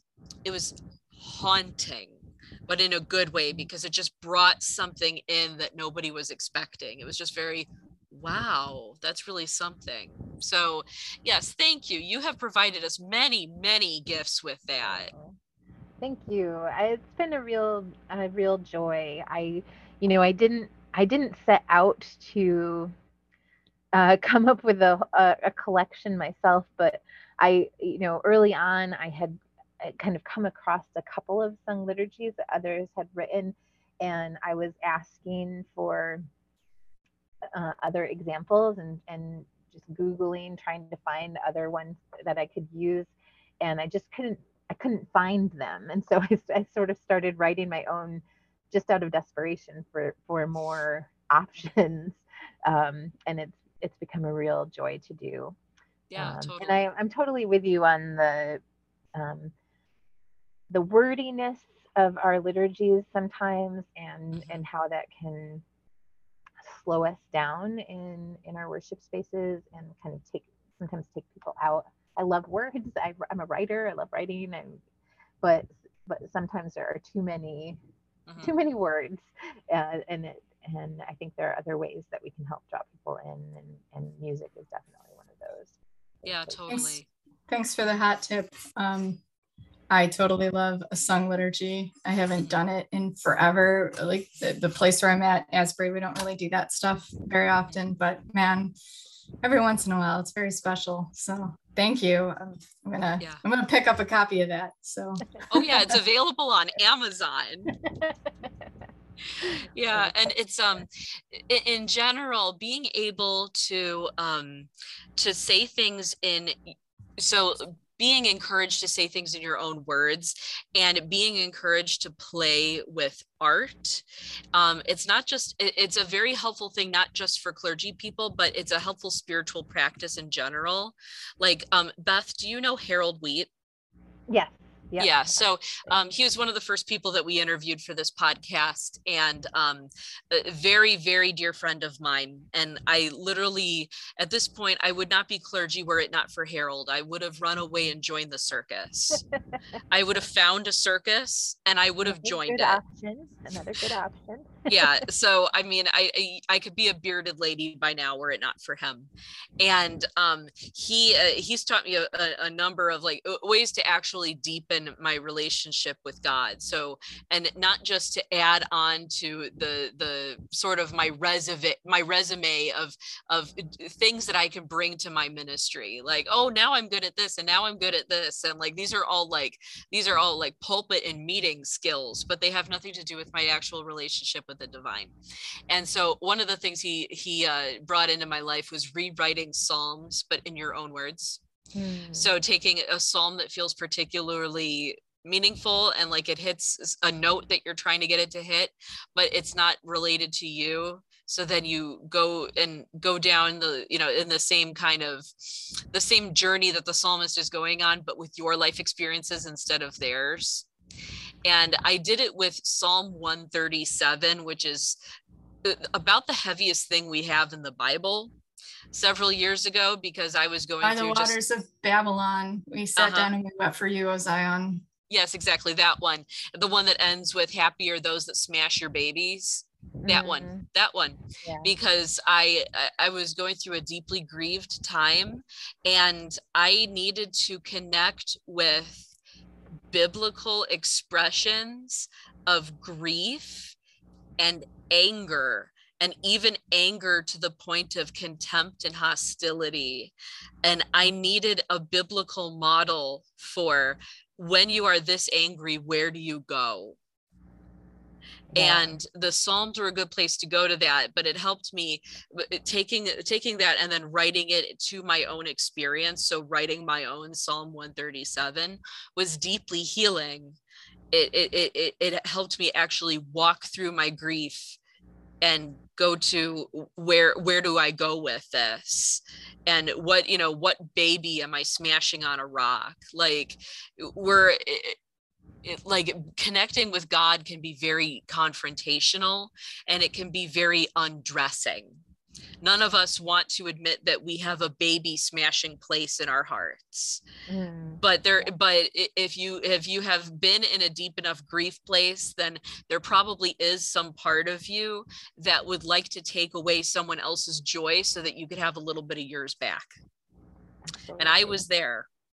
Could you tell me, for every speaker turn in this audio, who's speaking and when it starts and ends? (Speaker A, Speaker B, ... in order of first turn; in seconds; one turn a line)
Speaker A: 0.4-15.1
Speaker B: 14.8-15.4
Speaker B: 16.0-22.9
Speaker B: 23.9-36.2
Speaker B: 37.5-55.5
Speaker A: 56.1-56.8
Speaker B: 56.2-58.6
Speaker B: 59.1-59.5
Speaker B: 60.7-65.6
Speaker A: 64.3-64.6
Speaker B: 66.6-74.8
Speaker B: 75.4-77.8
Speaker A: 78.3-78.5
Speaker B: 78.4-86.6
Speaker A: 86.2-87.1
Speaker C: 86.7-89.2
Speaker C: 89.9-98.7
Speaker C: 99.4-105.7
Speaker A: 105.5-107.8
Speaker B: 107.8-108.2
Speaker A: 109.4-133.5
Speaker B: 109.4-110.3
Speaker B: 134.3-136.0
Speaker A: 135.0-149.2
Speaker A: 149.9-152.8
Speaker B: 152.0-154.8
Speaker A: 154.7-185.1
Speaker A: 185.7-191.4
Speaker B: 191.8-192.3
Speaker A: 192.2-210.7
Speaker A: 211.4-215.0
Speaker A: 215.6-218.3
Speaker A: 218.9-221.3
Speaker C: 220.8-224.8
Speaker A: 223.0-223.3
Speaker A: 225.1-239.1
Speaker B: 230.0-230.7
Speaker B: 231.4-231.7
Speaker A: 239.9-243.8
Speaker A: 244.4-257.0
Speaker B: 258.5-258.9
Speaker A: 258.6-270.6
Speaker A: 271.1-274.8
Speaker A: 275.4-285.0
Speaker A: 285.6-292.0
Speaker A: 292.6-297.2
Speaker B: 297.5-298.5
Speaker A: 298.0-309.9
Speaker B: 311.1-311.6
Speaker A: 311.2-312.1